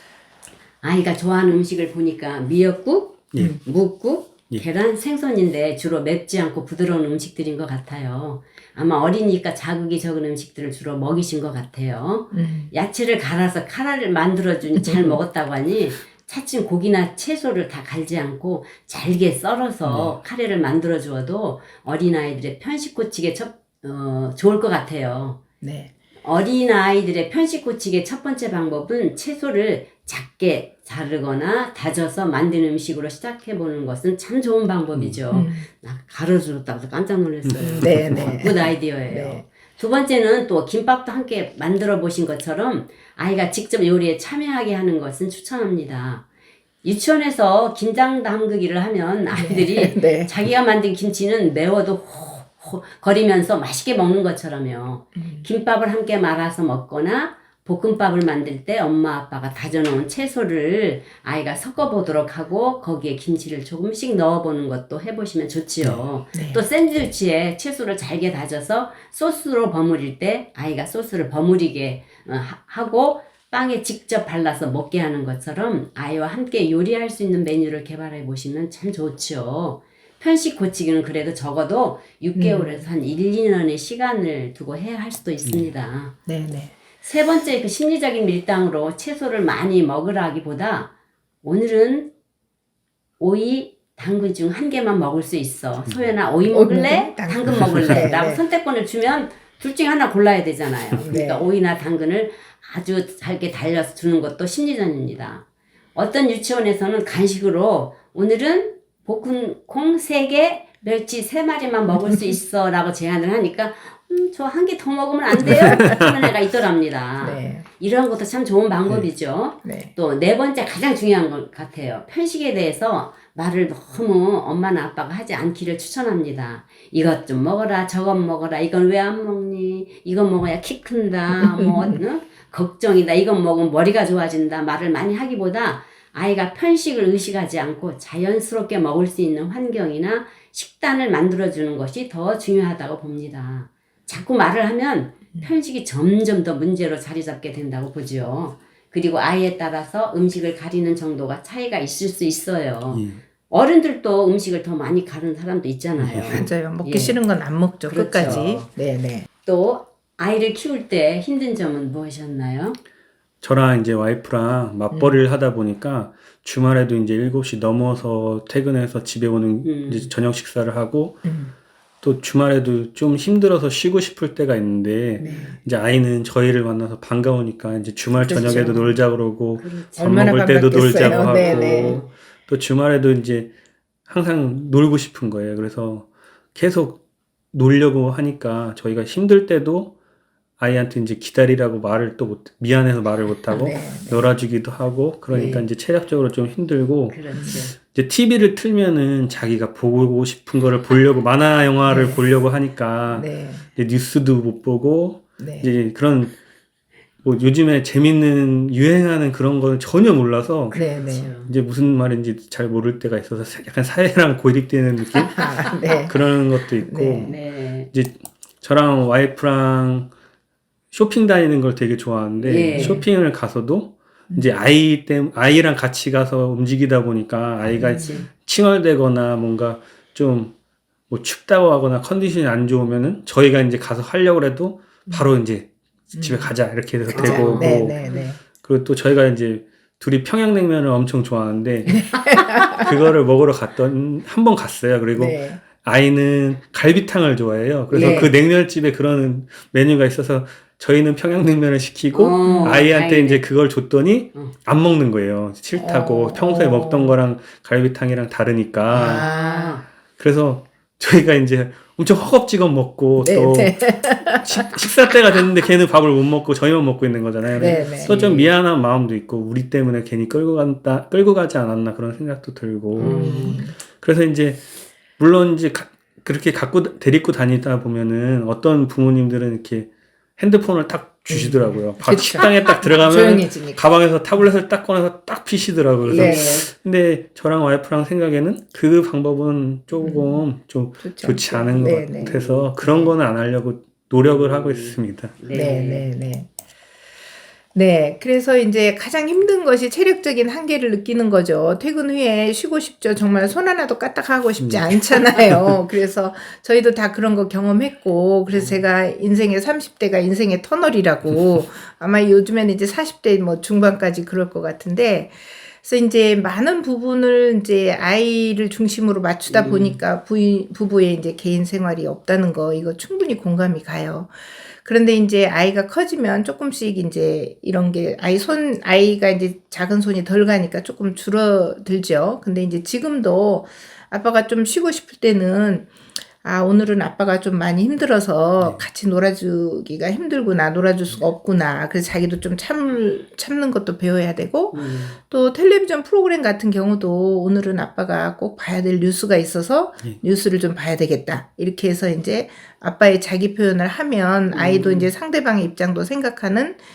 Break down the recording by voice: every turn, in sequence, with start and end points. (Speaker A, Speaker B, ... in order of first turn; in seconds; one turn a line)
Speaker A: 0.8-25.4
Speaker B: 12.3-12.7
Speaker B: 14.8-15.2
Speaker C: 19.9-20.2
Speaker B: 25.6-25.9
Speaker A: 26.2-46.2
Speaker B: 35.3-35.7
Speaker C: 37.5-38.4
Speaker B: 37.6-39.4
Speaker A: 46.8-86.2
Speaker B: 49.3-50.3
Speaker B: 55.2-55.5
Speaker B: 66.3-66.6
Speaker B: 82.3-82.9
Speaker C: 85.5-85.7
Speaker B: 86.3-86.8
Speaker A: 87.0-92.1
Speaker A: 93.2-157.2
Speaker B: 96.5-98.4
Speaker C: 97.5-98.0
Speaker B: 101.1-101.5
Speaker B: 115.4-116.0
Speaker C: 115.5-116.1
Speaker B: 117.2-117.7
Speaker B: 119.6-119.9
Speaker B: 131.4-132.0
Speaker C: 152.9-153.2
Speaker C: 156.0-156.4
Speaker B: 156.3-159.3
Speaker A: 157.9-158.7
Speaker A: 159.4-162.8
Speaker C: 163.4-171.2
Speaker B: 164.9-165.2
Speaker A: 169.6-170.1
Speaker B: 171.2-171.5
Speaker C: 172.0-183.5
Speaker A: 175.2-175.6
Speaker B: 175.2-175.6
Speaker B: 178.2-179.0
Speaker A: 178.3-178.7
Speaker A: 179.6-180.1
Speaker B: 180.0-182.0
Speaker A: 181.3-182.1
Speaker C: 184.1-187.0
Speaker C: 187.5-189.9
Speaker C: 190.6-206.4
Speaker B: 193.5-194.3
Speaker A: 195.3-195.7
Speaker A: 197.1-197.8
Speaker B: 197.3-197.7
Speaker B: 201.9-202.2
Speaker B: 203.1-203.7
Speaker B: 205.4-205.7
Speaker C: 207.2-210.8
Speaker A: 210.7-211.5
Speaker B: 210.7-211.3
Speaker C: 211.4-217.4
Speaker B: 215.2-216.2
Speaker B: 216.8-217.4
Speaker A: 217.2-217.9
Speaker C: 217.9-220.1
Speaker C: 220.9-230.6
Speaker A: 222.4-223.1
Speaker B: 222.8-223.1
Speaker B: 227.8-228.2
Speaker A: 227.9-228.3
Speaker C: 231.1-242.1
Speaker B: 236.1-236.5
Speaker B: 237.1-238.4
Speaker A: 237.1-238.2
Speaker B: 241.9-242.9
Speaker C: 242.7-259.3
Speaker B: 245.2-245.6
Speaker A: 247.9-248.3
Speaker B: 247.9-248.3
Speaker A: 252.1-253.4
Speaker B: 252.4-252.8
Speaker B: 255.8-257.2
Speaker B: 258.9-259.8
Speaker A: 258.9-259.9
Speaker C: 260.2-274.6
Speaker B: 263.2-264.7
Speaker B: 267.5-268.2
Speaker A: 267.6-268.5
Speaker B: 273.0-273.8
Speaker A: 273.0-273.6
Speaker C: 275.2-295.4
Speaker B: 281.3-283.8
Speaker A: 286.0-286.7
Speaker B: 286.1-286.6
Speaker B: 290.0-290.4
Speaker B: 291.0-293.1
Speaker A: 292.2-292.7
Speaker A: 294.2-296.1
Speaker B: 295.5-296.5
Speaker B: 297.8-335.9
Speaker C: 304.6-305.8
Speaker A: 308.5-308.8
Speaker A: 319.5-320.0
Speaker B: 336.4-356.8
Speaker C: 338.6-338.8
Speaker A: 344.7-345.2
Speaker A: 354.5-355.1